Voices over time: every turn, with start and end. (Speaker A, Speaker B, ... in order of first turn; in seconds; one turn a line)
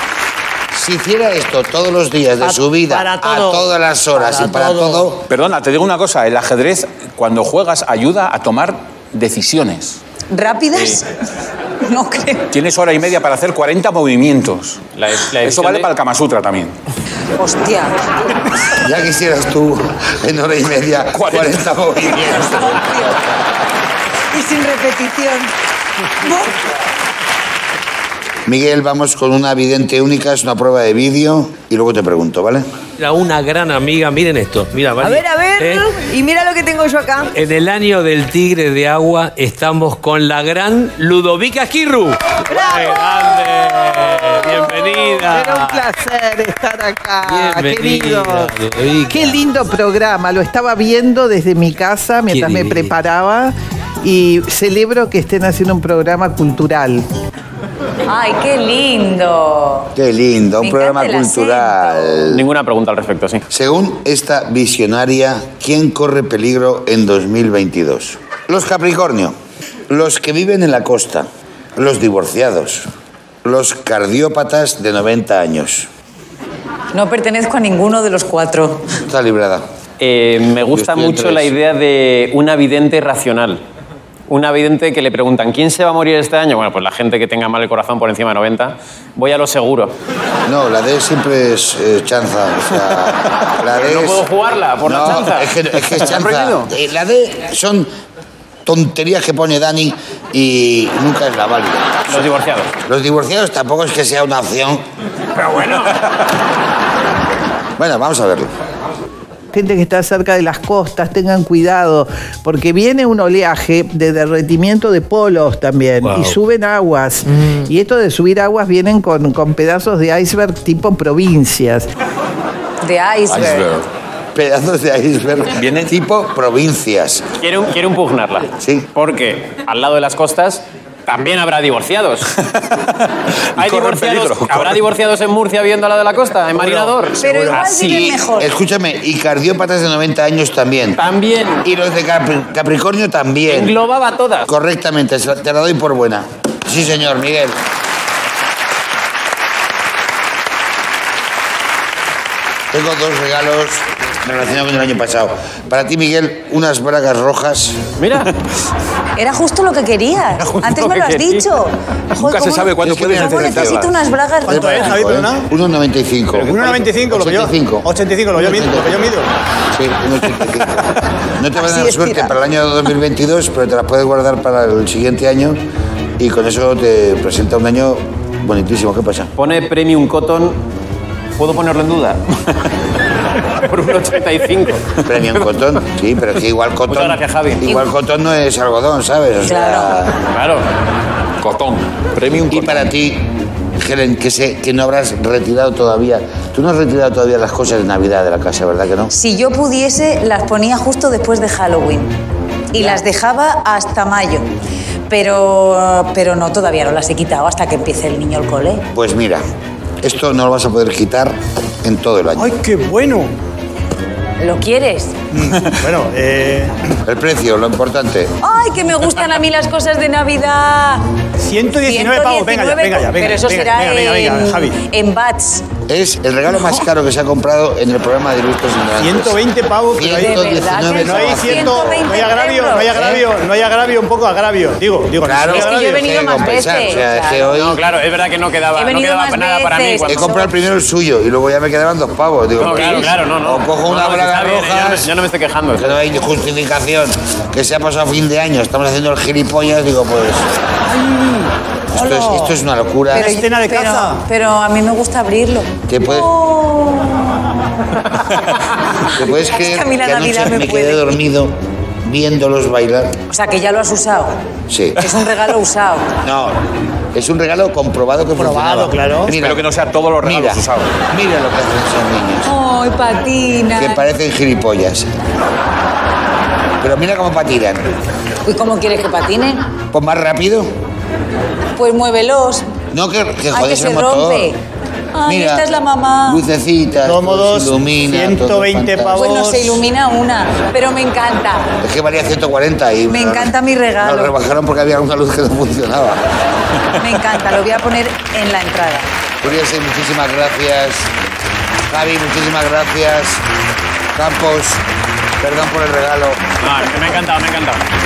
Speaker A: 0.7-5.3
Speaker B: 2.4-5.1
Speaker C: 5.3-10.0
Speaker D: 10.3-11.1
Speaker D: 11.8-12.5
Speaker C: 12.5-14.8
Speaker E: 15.0-15.9
Speaker C: 15.4-16.7
Speaker D: 17.4-18.0
Speaker A: 18.8-23.0
Speaker C: 21.1-21.6
Speaker D: 22.6-23.2
Speaker D: 24.3-25.5
Speaker D: 26.2-26.6
Speaker A: 28.5-32.7
Speaker F: 33.0-35.9
Speaker G: 35.0-37.3
Speaker F: 37.4-45.9
Speaker G: 42.5-43.0
Speaker H: 44.6-48.5
Speaker F: 47.2-49.4
Speaker H: 49.1-57.1
Speaker F: 52.3-52.9
Speaker D: 58.1-59.9
Speaker A: 59.9-62.4
Speaker D: 60.6-62.2
Speaker E: 62.3-63.4
Speaker A: 63.5-69.4
Speaker A: 69.9-72.9
Speaker A: 73.4-75.9
Speaker D: 76.9-78.9
Speaker A: 79.0-79.7
Speaker E: 80.0-83.6
Speaker A: 80.7-81.5
Speaker E: 84.3-90.0
Speaker A: 90.5-94.2
Speaker E: 93.6-96.7
Speaker A: 94.8-97.9
Speaker A: 98.6-102.2
Speaker E: 102.1-102.7
Speaker A: 102.9-104.8
Speaker E: 105.3-106.2
Speaker A: 107.8-108.5
Speaker H: 109.5-121.9
Speaker F: 116.0-116.4
Speaker D: 122.8-123.7
Speaker C: 123.3-123.8
Speaker A: 124.3-127.2
Speaker C: 125.5-125.9
Speaker E: 127.4-132.3
Speaker A: 128.6-128.9
Speaker C: 132.4-134.8
Speaker E: 133.6-138.2
Speaker D: 137.2-138.5
Speaker A: 137.5-141.0
Speaker E: 141.0-141.7
Speaker A: 141.6-143.8
Speaker E: 143.5-144.5
Speaker A: 144.4-147.6
Speaker A: 152.7-157.8
Speaker E: 158.0-158.3
Speaker D: 159.2-165.0
Speaker E: 160.4-161.5
Speaker C: 162.2-164.0
Speaker A: 162.8-163.8
Speaker B: 164.4-165.5
Speaker A: 164.5-168.9
Speaker E: 166.3-166.8
Speaker B: 166.4-169.3
Speaker A: 169.7-175.6
Speaker D: 171.6-172.3
Speaker A: 176.2-179.3
Speaker E: 179.4-180.6
Speaker E: 181.4-182.2
Speaker E: 183.6-185.0
Speaker A: 185.1-190.2
Speaker E: 186.9-187.6
Speaker D: 189.4-190.0
Speaker E: 190.3-190.7
Speaker C: 191.4-192.9
Speaker A: 192.5-199.1
Speaker D: 199.1-202.2
Speaker D: 202.7-204.5
Speaker D: 205.1-208.9
Speaker A: 208.9-209.4
Speaker A: 210.0-212.5
Speaker B: 212.4-213.3
Speaker D: 214.4-215.2
Speaker B: 215.3-216.8
Speaker A: 217.1-218.4
Speaker D: 218.4-221.1
Speaker B: 221.4-224.8
Speaker D: 221.8-225.7
Speaker A: 225.9-232.1
Speaker B: 229.0-236.1
Speaker D: 230.1-233.0
Speaker A: 232.9-233.2
Speaker A: 235.2-237.8
Speaker D: 235.4-237.5
Speaker E: 237.5-240.3
Speaker D: 238.8-240.5
Speaker A: 240.1-245.1
Speaker E: 242.6-245.9
Speaker A: 245.7-250.5
Speaker B: 250.9-252.2
Speaker A: 251.9-253.4
Speaker D: 252.1-252.5
Speaker D: 253.1-257.4
Speaker B: 253.1-254.2
Speaker A: 255.9-256.3
Speaker A: 259.1-263.2
Speaker D: 259.2-261.2
Speaker D: 263.3-264.4
Speaker A: 264.7-265.1
Speaker D: 264.9-266.1
Speaker A: 266.2-266.6
Speaker A: 267.1-269.6
Speaker B: 268.4-269.3
Speaker C: 269.3-271.0
Speaker A: 270.2-272.5
Speaker D: 272.4-274.1
Speaker A: 273.8-275.1
Speaker A: 276.8-277.9
Speaker D: 278.4-279.7
Speaker A: 279.9-280.7
Speaker D: 281.8-282.7
Speaker A: 282.9-284.5
Speaker D: 283.5-284.6
Speaker D: 285.1-286.4
Speaker A: 285.2-285.7
Speaker A: 286.2-289.3
Speaker B: 287.1-289.8
Speaker D: 289.1-291.8
Speaker A: 291.8-296.2
Speaker D: 293.1-294.4
Speaker D: 297.0-299.1
Speaker A: 299.4-301.1
Speaker A: 301.9-303.4
Speaker A: 304.1-304.8
Speaker A: 305.4-306.4
Speaker E: 306.6-307.9